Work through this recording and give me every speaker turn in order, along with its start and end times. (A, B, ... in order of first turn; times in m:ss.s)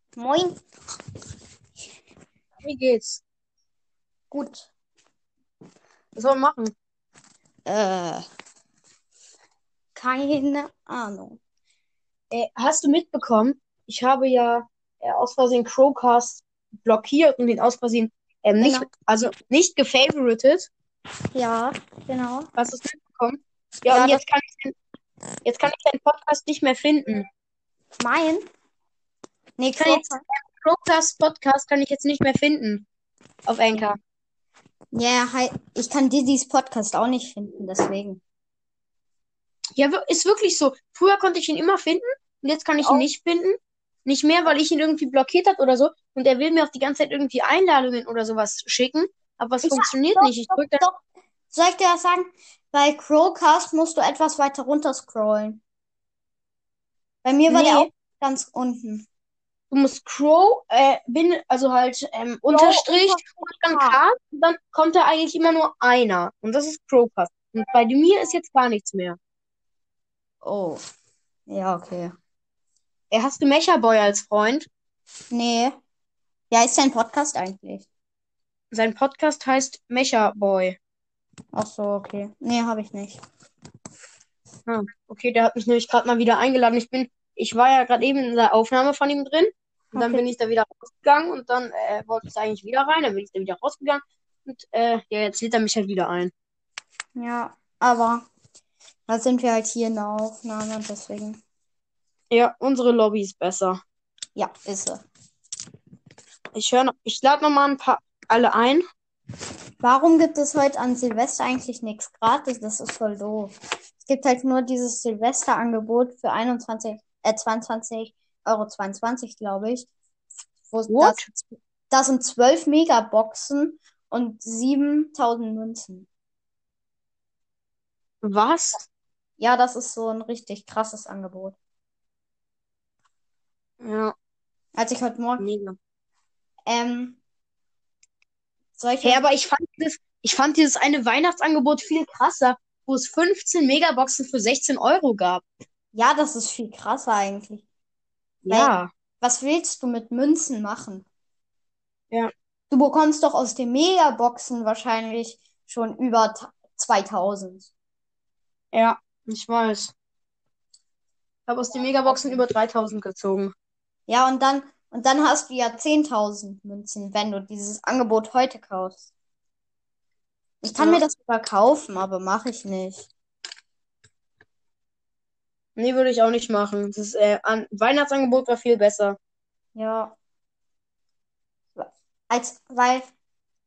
0:00.2-0:00.5 A
0:02.6-0:03.2 B
0:04.3-0:04.7 A
0:06.2-0:06.7 B
0:07.7-0:08.3 A
0:10.0-0:11.4 A
0:12.3-0:20.7 B
0:18.6-0:18.9 A
0:21.3-0:22.5 A
0:22.6-0:24.8 B
0:23.9-0:24.2 A
0:25.4-0:27.3 B
0:28.0-0:28.5 A
0:29.6-0:30.2 A
0:29.8-0:32.8 B
0:33.5-0:34.0 B
0:34.9-0:38.2 A
0:39.8-0:50.8 B
0:49.6-0:55.6 A
0:57.2-0:59.1 A
0:57.5-0:57.9 B
0:59.7-1:09.2 B
1:02.5-1:04.0 A
1:10.4-1:10.9 A
1:11.5-1:12.2 A
1:13.1-1:14.7 B
1:15.3-1:15.8 A
1:16.5-1:17.9 A
1:18.7-1:20.8 B
1:21.5-1:23.2 A
1:24.7-1:36.3 B
1:29.9-1:30.2 A
1:37.2-1:38.3 A
1:39.1-1:41.4 A
1:42.3-1:43.8 B
1:44.4-1:45.0 A
1:46.5-1:48.8 B
1:49.8-1:59.9 A
2:00.7-2:06.1 A
2:00.9-2:01.3 B
2:08.2-2:08.8 B
2:09.4-2:11.6 A
2:13.8-2:14.2 B
2:14.8-2:15.4 A
2:15.4-2:15.8 B
2:16.7-2:17.2 A
2:18.8-2:19.2 A
2:19.0-2:25.4 B
2:25.9-2:27.6 A
2:28.4-2:28.9 B
2:28.5-2:31.1 A
2:32.7-2:37.7 A
2:38.7-2:39.9 B
2:41.5-2:43.5 B
2:42.1-2:42.4 A
2:44.1-2:49.0 A
2:50.6-2:53.1 A
2:50.8-2:51.0 B
2:55.8-2:59.2 B
2:59.8-3:00.2 A
3:01.8-3:03.1 A